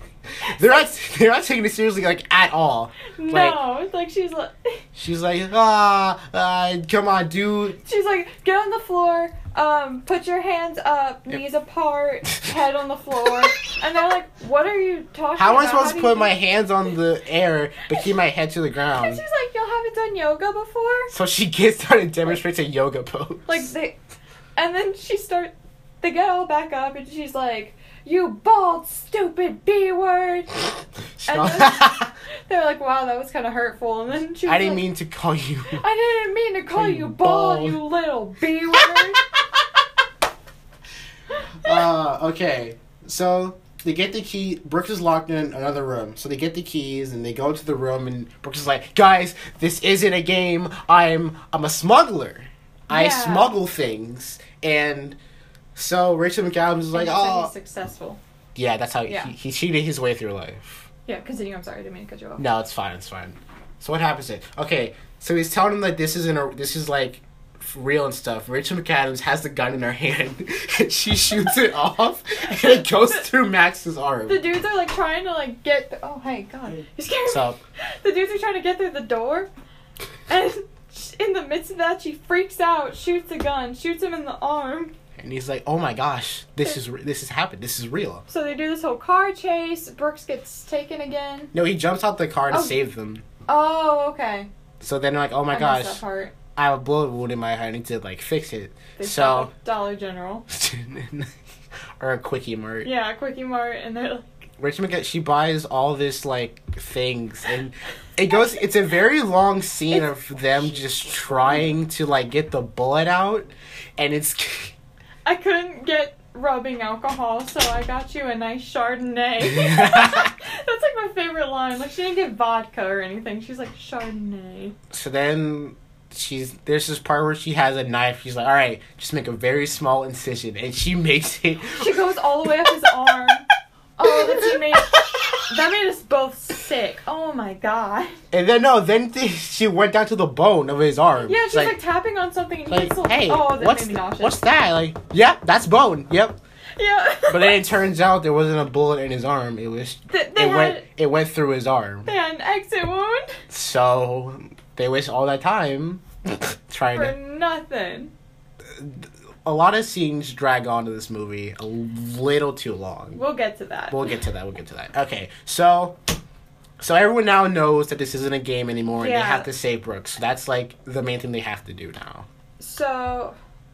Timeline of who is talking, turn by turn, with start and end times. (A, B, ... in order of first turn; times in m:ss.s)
0:00.4-0:03.6 A
0:03.1-0:04.8 B
0:05.0-0:07.8 A
0:07.8-0:16.4 B
0:15.4-0:19.2 A
0:19.0-0:21.1 B
0:21.1-0:23.7 A
0:23.5-0:24.0 B
0:24.6-0:30.6 B
0:31.2-0:32.1 A
0:31.3-0:34.8 B
0:34.5-0:35.8 A
0:35.8-0:39.2 B
0:36.7-0:37.8 A
0:38.8-0:39.6 A
0:41.6-0:55.2 A
0:52.9-0:53.5 B
0:55.8-0:57.5 A
0:56.9-0:58.2 B
0:58.6-1:00.9 A
0:59.1-0:59.3 B
1:01.1-1:02.4 B
1:02.4-1:14.4 A
1:12.6-1:13.2 B
1:14.3-1:19.5 B
1:17.3-1:17.6 A
1:20.3-1:24.9 B
1:25.2-1:28.2 A
1:28.3-1:31.5 B
1:31.5-1:33.2 A
1:32.5-1:32.8 B
1:33.5-1:34.5 B
1:34.8-1:36.0 A
1:35.5-1:36.3 B
1:36.6-1:39.5 A
1:39.0-1:40.4 B
1:40.5-1:41.3 A
1:42.0-1:42.9 A
1:42.8-1:44.5 B
1:44.6-1:54.8 A
1:55.2-2:04.8 B
1:59.4-2:00.3 A
2:04.9-2:12.7 A
2:11.7-2:18.2 B
2:14.1-2:15.3 A
2:18.3-2:21.8 A
2:21.2-2:24.4 B
2:22.7-2:26.4 A
2:26.8-2:27.7 B
2:27.3-2:32.1 A
2:30.1-2:30.9 B
2:32.1-2:33.4 B
2:33.5-2:37.2 A
2:36.9-2:38.1 B
2:38.7-2:43.2 A
2:43.1-2:44.2 B
2:43.9-2:46.0 A
2:46.8-2:52.3 A
2:49.0-2:49.5 B
2:52.6-2:53.4 B